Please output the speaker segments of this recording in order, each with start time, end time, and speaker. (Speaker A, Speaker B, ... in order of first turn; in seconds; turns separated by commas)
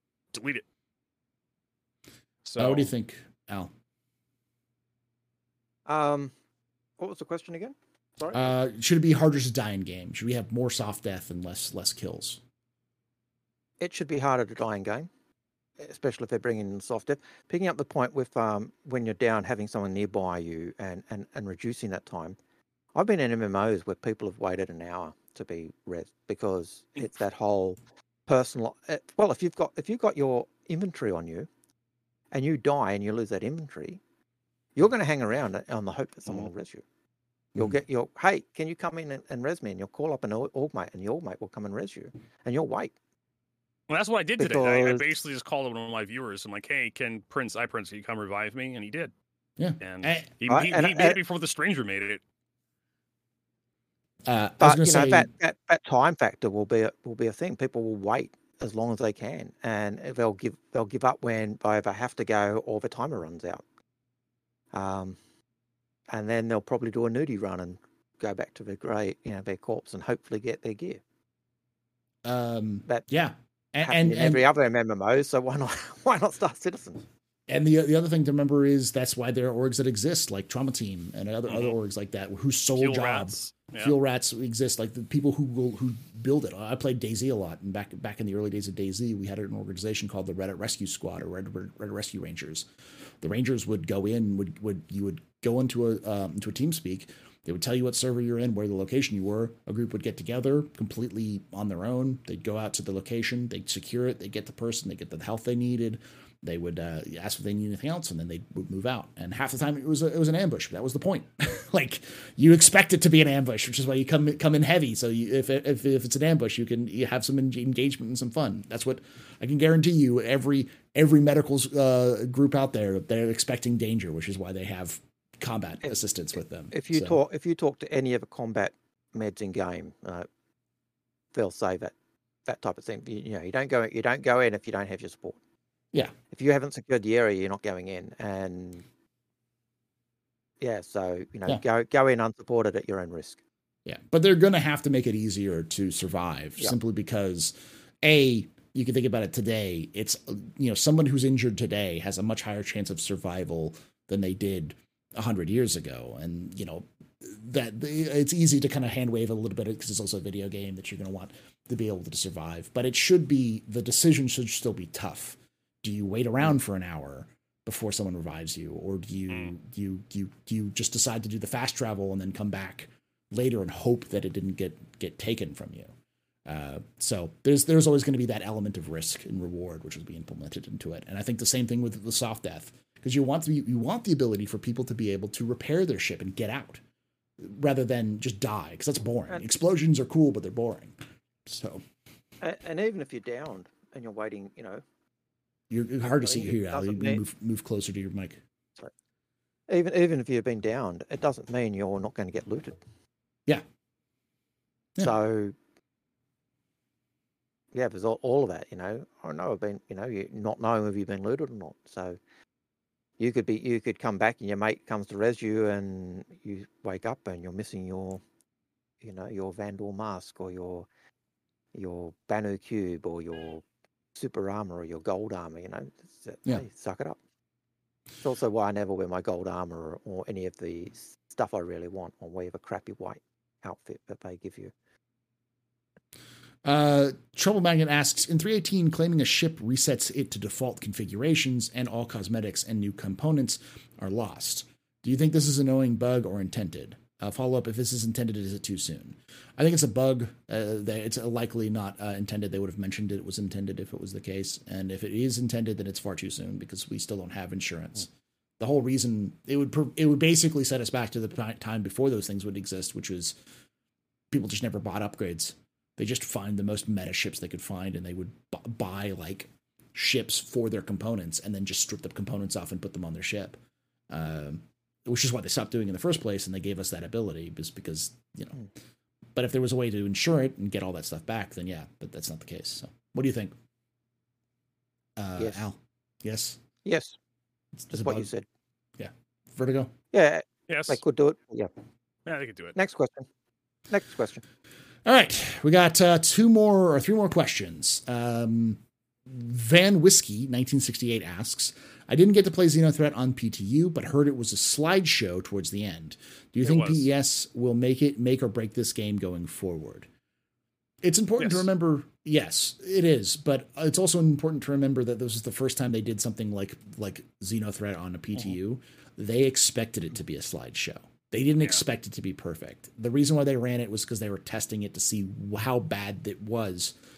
Speaker A: 0.3-0.7, Speaker A: 2.4-2.9, Speaker B: 2.6-3.7, Speaker C: 5.9-6.3, Speaker C: 7.0-8.5, Speaker B: 8.3-12.4, Speaker C: 13.8-15.1, Speaker C: 15.8-22.4, Speaker C: 22.9-31.5, Speaker C: 32.3-34.0, Speaker C: 34.8-36.8, Speaker C: 37.5-42.9, Speaker A: 43.9-49.1, Speaker C: 44.4-45.0, Speaker B: 49.6-50.3, Speaker A: 49.8-52.2, Speaker C: 50.5-51.2, Speaker B: 54.3-55.3, Speaker C: 54.6-63.6, Speaker C: 64.7-65.2, Speaker C: 66.1-71.0, Speaker B: 72.2-74.5, Speaker C: 73.8-77.1, Speaker B: 77.5-92.7, Speaker A: 81.5-81.8, Speaker A: 82.8-83.9, Speaker B: 93.2-127.2, Speaker C: 126.7-130.3, Speaker C: 131.3-131.9, Speaker C: 132.5-135.4, Speaker C: 136.3-138.8, Speaker C: 140.6-143.4, Speaker B: 143.8-175.9, Speaker B: 176.5-186.8, Speaker B: 187.4-191.8, Speaker C: 192.4-194.8, Speaker B: 195.7-198.4, Speaker C: 196.0-197.2, Speaker C: 199.7-202.8, Speaker C: 205.0-205.6, Speaker C: 207.7-212.2, Speaker C: 213.2-218.2, Speaker C: 219.0-220.9, Speaker C: 221.7-223.6, Speaker C: 224.2-227.2, Speaker C: 228.2-234.7, Speaker B: 236.6-263.4, Speaker B: 264.3-273.6, Speaker B: 274.1-278.6, Speaker B: 279.4-283.5, Speaker B: 285.2-286.6, Speaker C: 285.4-285.6, Speaker C: 286.8-287.2, Speaker B: 287.8-288.3, Speaker C: 287.9-288.5, Speaker B: 289.0-289.9, Speaker C: 290.1-291.7, Speaker A: 290.7-291.0, Speaker A: 292.3-292.8, Speaker C: 292.8-293.3, Speaker C: 293.9-294.4, Speaker B: 295.1-310.1, Speaker A: 306.6-307.1, Speaker B: 311.0-327.0, Speaker A: 311.4-311.7